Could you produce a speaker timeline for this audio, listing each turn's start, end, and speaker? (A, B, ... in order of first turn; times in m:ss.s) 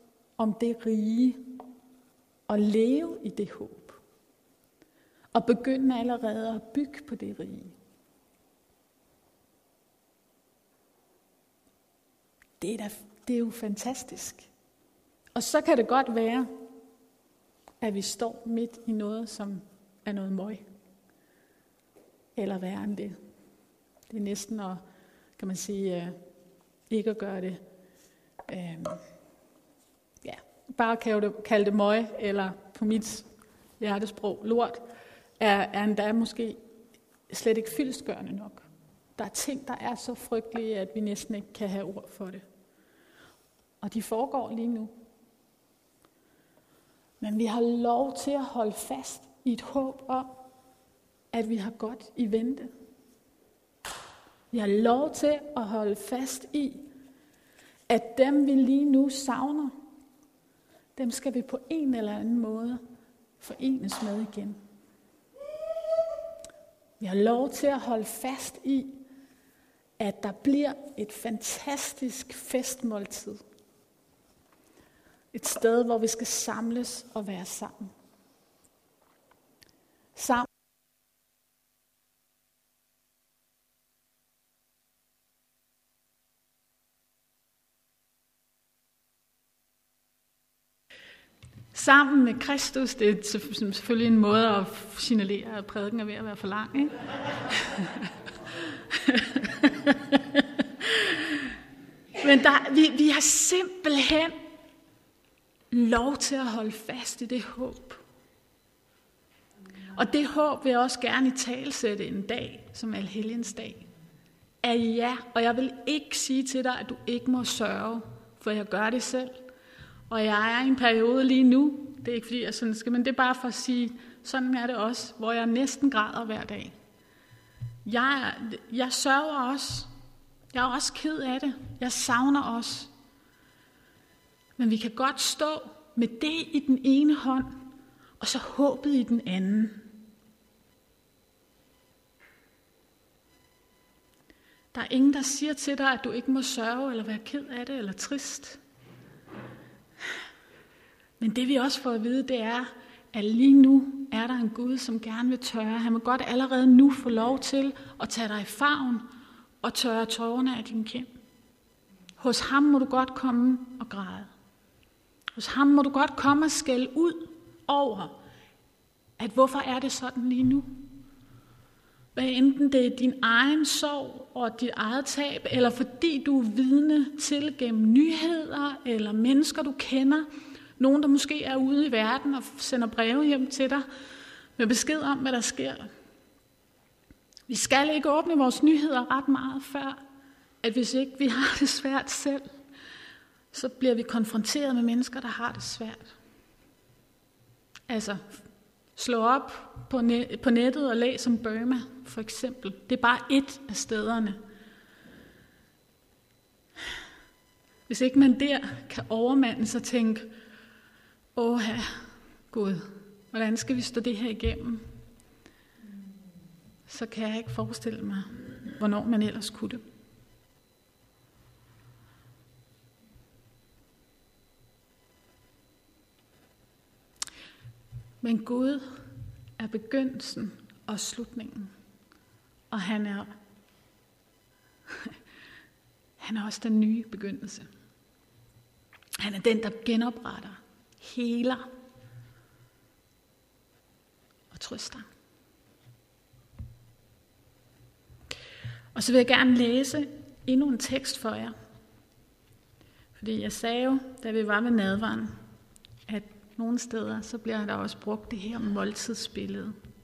0:00.4-0:01.4 A
0:02.5-0:04.0 A
0:05.3-0:07.8 A
0:12.6-0:14.5 A
0:15.3-0:16.5 A
0:17.8-0:20.6 A
0:22.4-0:23.2 A
0:24.1-0:24.8 A
0:25.4-0:26.2 A
0:26.9-0:27.6 A
0:28.5-0:29.0 A
0:30.2-0:33.3 A
0:33.8-0:34.8 A
0:35.4-0:36.6 A
0:37.3-0:38.6 A
0:39.2-0:42.4 A
0:43.8-0:44.9 A
0:47.2-0:50.3 A
0:51.3-0:52.7 A
0:54.5-0:56.8 A
0:57.9-0:59.7 A
1:01.0-1:02.8 A
1:03.4-1:04.6 A
1:07.0-1:09.0 A
1:10.0-1:13.4 A
1:15.3-1:17.9 A
1:20.2-1:20.5 A
1:31.7-1:38.0 A
1:38.9-1:41.4 A
1:42.2-1:44.4 A
1:45.7-1:48.0 A
1:49.9-1:53.8 A
1:54.6-1:59.4 A
2:00.1-2:06.7 A
2:07.8-2:09.9 A
2:10.5-2:12.9 A
2:14.6-2:17.6 A
2:18.2-2:19.9 A
2:24.7-2:28.6 A
2:31.2-2:39.0 A
2:39.6-2:41.1 A
2:42.2-2:44.3 A
2:45.3-2:48.1 A
2:49.2-2:50.8 A
2:52.1-3:00.2 A
3:00.8-3:03.8 A
3:04.6-3:05.9 A
3:07.5-3:10.0 A
3:10.6-3:12.5 A
3:13.5-3:16.1 A
3:17.9-3:18.4 A
3:19.0-3:24.4 A
3:27.9-3:30.3 A
3:31.4-3:34.9 A
3:36.9-3:39.8 A
3:48.2-3:49.0 A
3:49.6-3:51.7 A
3:52.7-3:53.3 A
3:56.2-3:57.7 A
3:59.2-4:01.6 A
4:04.5-4:05.0 A
4:08.9-4:11.5 A
4:13.1-4:15.3 A
4:16.1-4:19.7 A